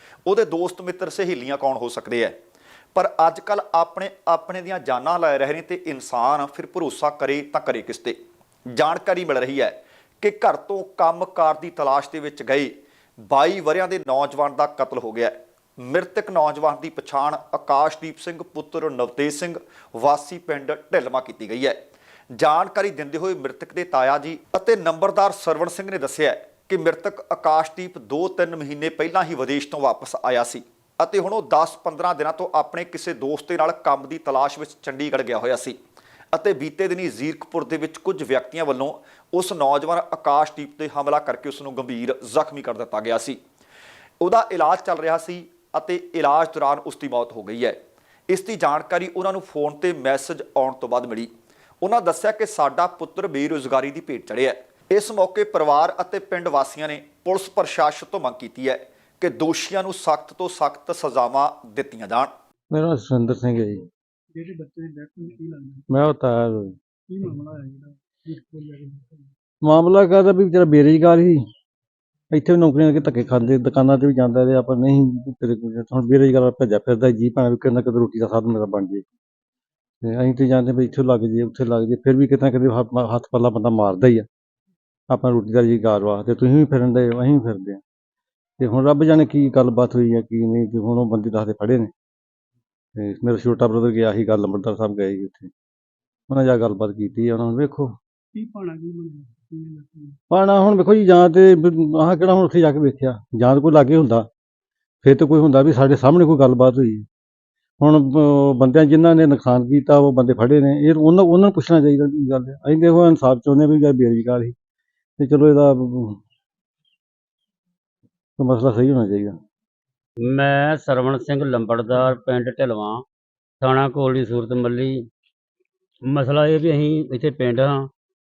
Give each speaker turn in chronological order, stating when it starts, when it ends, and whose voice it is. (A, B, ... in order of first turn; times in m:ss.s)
0:00.3-0:02.4 A
0:03.0-0:08.2 A
0:08.7-0:12.7 A
0:13.3-0:21.8 A
0:22.4-0:35.8 A
0:36.3-0:43.4 A
0:44.2-0:47.8 A
0:48.3-0:51.3 A
0:51.8-1:02.3 A
1:02.7-1:03.9 B
1:04.4-1:05.8 C
1:05.9-1:06.8 B
1:07.1-1:09.3 C
1:09.6-1:11.4 B
1:12.3-1:19.0 B
1:20.0-1:24.3 B
1:25.1-1:27.8 B
1:28.6-1:31.9 B
1:33.0-1:35.5 B
1:36.3-1:38.0 B
1:38.3-1:40.2 C
1:40.3-1:44.3 B
1:45.0-1:47.0 B
1:47.8-1:54.5 B
1:55.2-1:56.2 B
1:58.4-1:59.4 B
2:00.2-2:03.0 D
2:03.6-2:05.0 D
2:06.0-2:07.9 D